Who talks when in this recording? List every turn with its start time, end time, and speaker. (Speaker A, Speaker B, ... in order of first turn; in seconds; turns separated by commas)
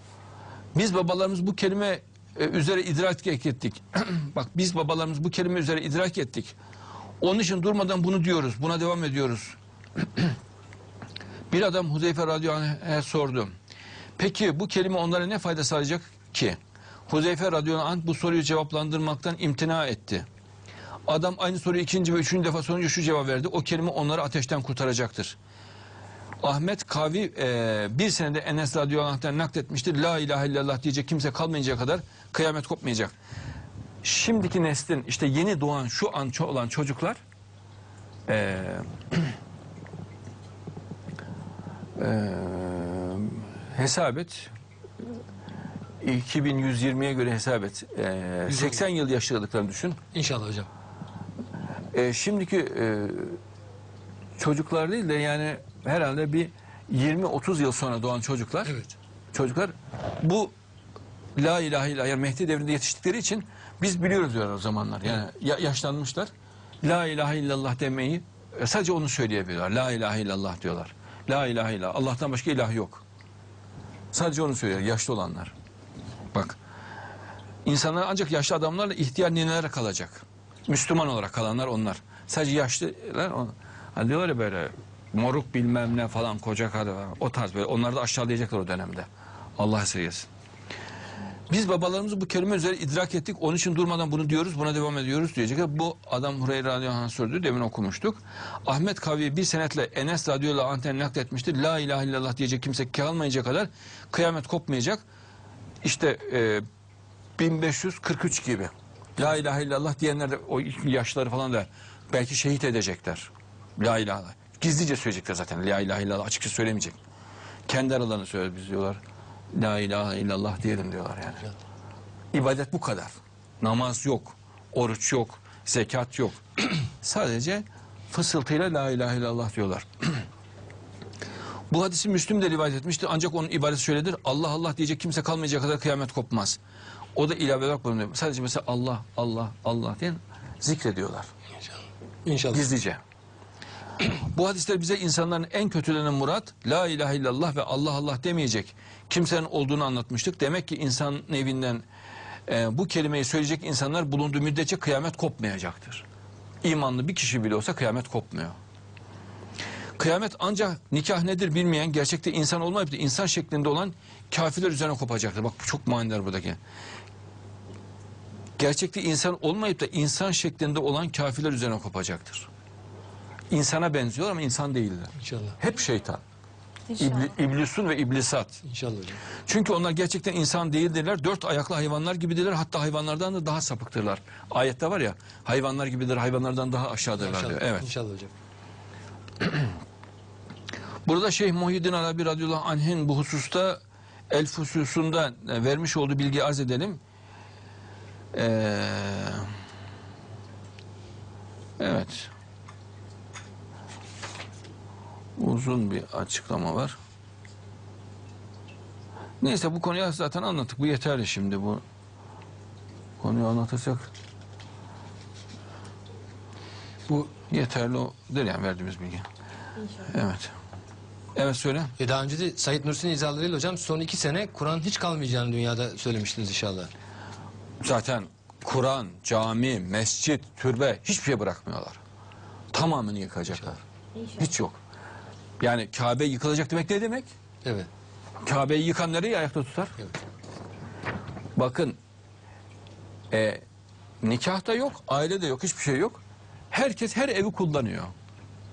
Speaker A: 0.8-6.6, Speaker A: 7.2-10.4, Speaker A: 11.5-13.5, Speaker A: 14.2-20.3, Speaker A: 21.1-25.4, Speaker A: 26.4-33.2, Speaker A: 34.0-37.2, Speaker A: 38.3-39.4, Speaker A: 42.0-44.5, Speaker A: 46.0-50.0, Speaker B: 48.5-48.8, Speaker B: 50.1-50.7, Speaker A: 51.9-53.4, Speaker A: 54.4-58.8, Speaker B: 58.6-58.9, Speaker A: 59.3-60.5, Speaker A: 61.4-66.3, Speaker A: 66.8-73.0, Speaker A: 74.1-75.5, Speaker A: 76.3-76.6, Speaker A: 77.7-90.3, Speaker A: 91.5-105.0, Speaker A: 105.8-106.6, Speaker A: 107.4-117.0, Speaker A: 117.7-119.0, Speaker A: 119.5-121.5, Speaker A: 122.3-130.3, Speaker A: 131.7-136.6, Speaker A: 137.2-141.3, Speaker B: 141.6-142.7, Speaker A: 142.5-143.0, Speaker A: 144.0-151.8, Speaker A: 152.5-156.1, Speaker A: 156.6-158.6, Speaker A: 160.0-166.6, Speaker A: 168.6-172.5, Speaker A: 173.5-176.2, Speaker B: 175.2-175.6, Speaker A: 176.9-178.6, Speaker B: 178.6-179.2, Speaker A: 179.5-187.9, Speaker B: 187.2-188.3, Speaker A: 191.1-197.0, Speaker A: 198.3-199.5, Speaker A: 201.8-202.3, Speaker A: 205.4-207.0, Speaker A: 209.4-211.8, Speaker A: 213.2-214.1, Speaker A: 217.5-219.3, Speaker A: 219.9-220.5, Speaker A: 221.3-221.9, Speaker B: 222.0-226.9, Speaker A: 227.8-232.0, Speaker A: 232.7-234.8, Speaker A: 235.6-237.3, Speaker B: 237.6-237.9, Speaker A: 238.4-240.0, Speaker A: 241.6-242.0, Speaker A: 243.3-243.6, Speaker A: 244.2-246.2, Speaker A: 246.7-248.1